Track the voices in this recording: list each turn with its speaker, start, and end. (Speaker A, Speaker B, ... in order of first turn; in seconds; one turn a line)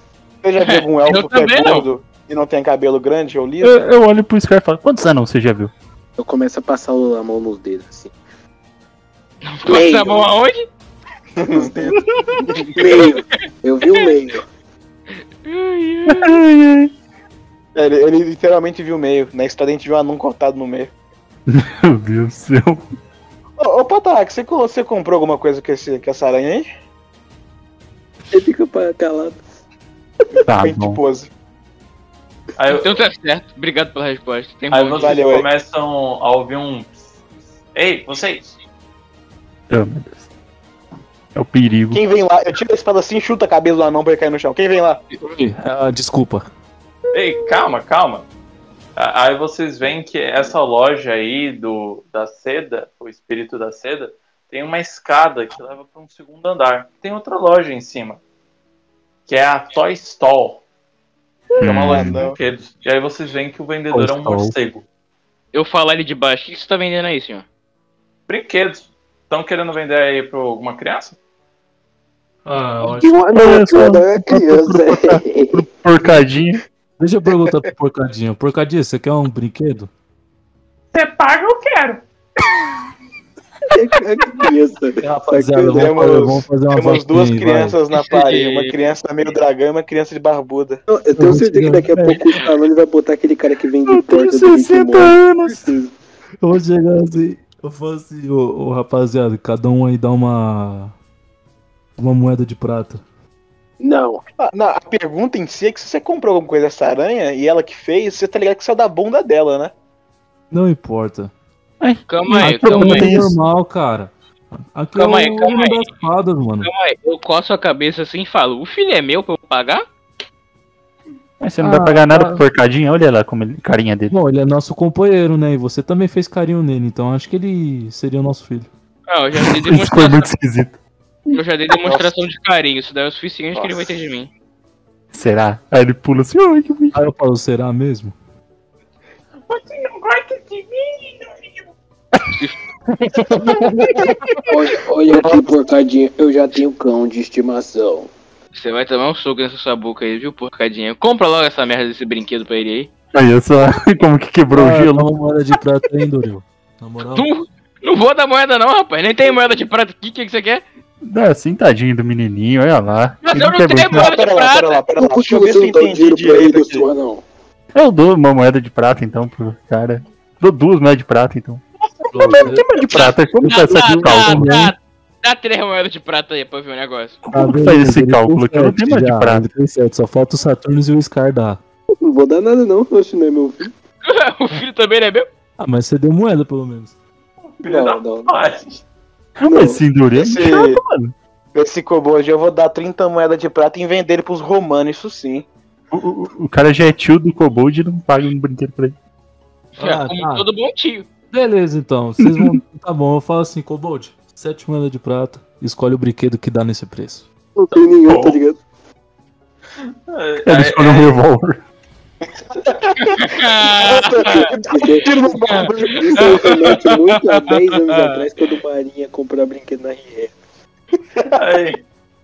Speaker A: 0.4-3.7
Speaker B: 0.6-1.9
Speaker C: 3.6-5.7
Speaker D: 6.2-8.1
Speaker B: 9.4-10.7
Speaker D: 9.7-10.3
Speaker A: 11.4-11.9
Speaker D: 11.5-12.0
Speaker D: 12.5-14.4
Speaker B: 15.4-16.4
Speaker C: 16.1-16.9
Speaker A: 17.7-20.9
Speaker C: 21.5-22.9
Speaker A: 23.6-26.7
Speaker D: 28.3-29.4
Speaker C: 30.5-31.0
Speaker A: 30.6-31.3
Speaker E: 32.6-33.0
Speaker B: 32.7-35.2
Speaker E: 34.7-37.1
Speaker A: 35.0-35.5
Speaker E: 37.7-38.5
Speaker C: 39.7-40.2
Speaker C: 41.3-42.0
Speaker A: 41.9-45.0
Speaker F: 45.2-46.5
Speaker E: 47.1-48.3
Speaker E: 49.0-58.2
Speaker E: 59.3-60.6
Speaker C: 61.6-62.2
Speaker E: 61.6-64.8
Speaker A: 61.9-62.4
Speaker F: 63.9-64.5
Speaker B: 65.5-67.4
Speaker E: 68.3-71.2
Speaker F: 72.5-73.2
Speaker D: 72.8-75.6
Speaker C: 73.3-76.6
Speaker F: 77.0-79.9
Speaker E: 80.9-82.0
Speaker D: 83.7-85.9
Speaker F: 85.0-87.8
Speaker A: 85.7-90.8
Speaker B: 88.0-88.7
Speaker D: 90.9-95.9
Speaker F: 91.1-92.2
Speaker C: 93.9-95.7
Speaker F: 96.4-100.9
Speaker F: 102.0-103.0
Speaker D: 103.8-104.2
Speaker A: 104.4-109.7
Speaker F: 110.5-111.3
Speaker C: 111.8-113.3
Speaker B: 112.1-113.1
Speaker F: 112.4-116.7
Speaker B: 114.9-115.8
Speaker B: 116.6-119.8
Speaker C: 121.4-124.1
Speaker F: 121.6-122.4
Speaker F: 124.1-128.7
Speaker B: 129.1-130.3
Speaker C: 129.4-130.8
Speaker B: 131.3-134.3
Speaker A: 131.8-132.1
Speaker C: 135.1-136.9
Speaker F: 136.9-138.1
Speaker E: 139.5-141.7
Speaker C: 143.3-144.2
Speaker D: 144.5-148.1
Speaker A: 145.1-145.5
Speaker B: 148.5-152.9
Speaker C: 153.1-155.1
Speaker F: 154.5-157.3
Speaker B: 157.1-160.6
Speaker C: 161.0-164.1
Speaker B: 163.2-164.8
Speaker A: 163.9-166.9
Speaker D: 164.9-167.2
Speaker C: 167.7-171.6
Speaker F: 172.1-172.7
Speaker C: 172.3-174.5
Speaker B: 172.9-177.2
Speaker F: 173.3-174.7
Speaker C: 177.2-179.4
Speaker F: 177.3-181.6
Speaker D: 182.0-183.7
Speaker B: 184.0-185.3
Speaker F: 185.6-186.9
Speaker E: 187.4-188.8
Speaker D: 187.7-188.3
Speaker C: 189.4-191.1
Speaker D: 189.5-189.8
Speaker A: 190.1-190.8
Speaker A: 191.5-195.5
Speaker C: 195.9-198.9
Speaker B: 199.8-201.1
Speaker F: 199.8-200.4
Speaker F: 201.3-207.2
Speaker C: 202.2-202.6
Speaker D: 207.6-208.6
Speaker E: 208.0-208.4
Speaker E: 210.1-211.2
Speaker C: 210.4-211.6
Speaker A: 212.6-216.5
Speaker B: 213.1-214.5
Speaker D: 214.7-215.2
Speaker D: 215.9-220.3
Speaker E: 221.3-221.8